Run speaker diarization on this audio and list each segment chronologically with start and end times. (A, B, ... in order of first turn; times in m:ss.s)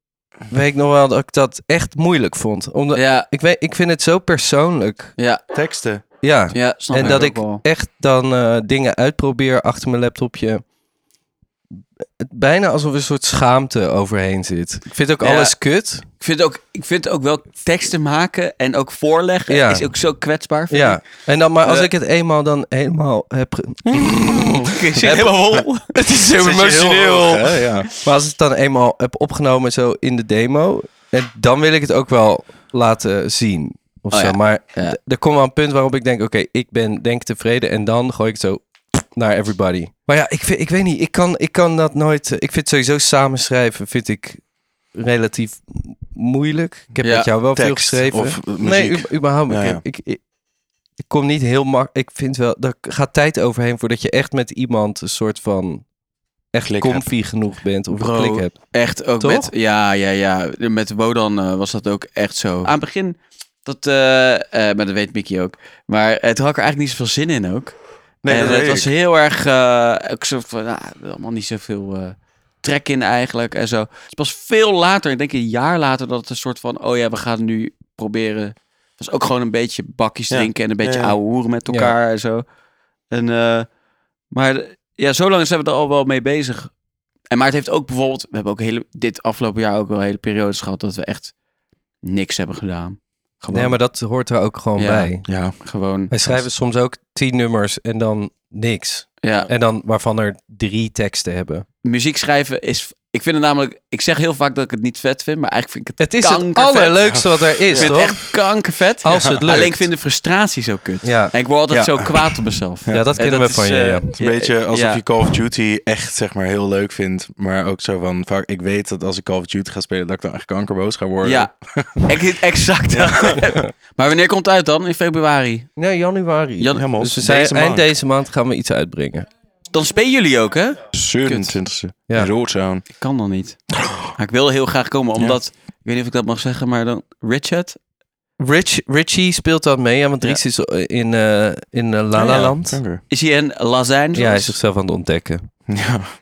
0:00.5-0:05.2 A
0:03.0-0:03.3 B
0:05.5-0:06.0 C
0:06.2-0:10.6 A
0:06.5-0:07.6 B
0:07.0-0:07.3 C
0:12.2-0:16.0 A
0:15.2-0:15.6 B
0:16.2-0:21.0 B
0:19.5-0:19.9 A
0:20.7-0:50.2 A
0:21.6-0:21.9 B
0:24.3-0:26.8 B
0:26.4-0:27.9 C
0:34.1-0:35.0 B
0:47.0-0:47.3 B
0:47.5-0:49.8 C
0:51.0-0:55.9 A
0:56.5-0:59.5 A
0:56.7-0:57.1 C
0:57.9-1:22.4 B
1:08.2-1:08.9 C
1:20.3-1:21.2 C
1:21.7-1:21.9 A
1:23.1-1:23.7 B
1:24.3-1:26.7 B
1:27.3-1:31.3 B
1:32.0-1:33.8 B
1:33.5-1:35.3 A
1:34.8-1:36.4 B
1:35.3-1:35.5 C
1:36.1-1:41.7 A
1:39.2-1:39.5 B
1:41.8-1:55.0 B
1:46.0-1:48.3 A
1:47.0-1:48.2 C
1:49.0-1:49.9 A
1:51.0-1:51.3 A
1:51.7-1:52.2 C
1:52.9-1:54.1 A
1:54.2-2:02.1 C
2:01.2-2:05.8 B
2:02.9-2:03.4 C
2:05.8-2:09.3 A
2:06.6-2:06.9 B
2:06.7-2:07.9 C
2:09.7-2:11.6 B
2:10.9-2:12.9 C
2:13.0-2:17.8 B
2:18.4-2:22.8 A
2:22.2-2:23.0 C
2:23.1-2:24.6 B
2:24.2-2:25.5 A
2:25.7-2:26.1 C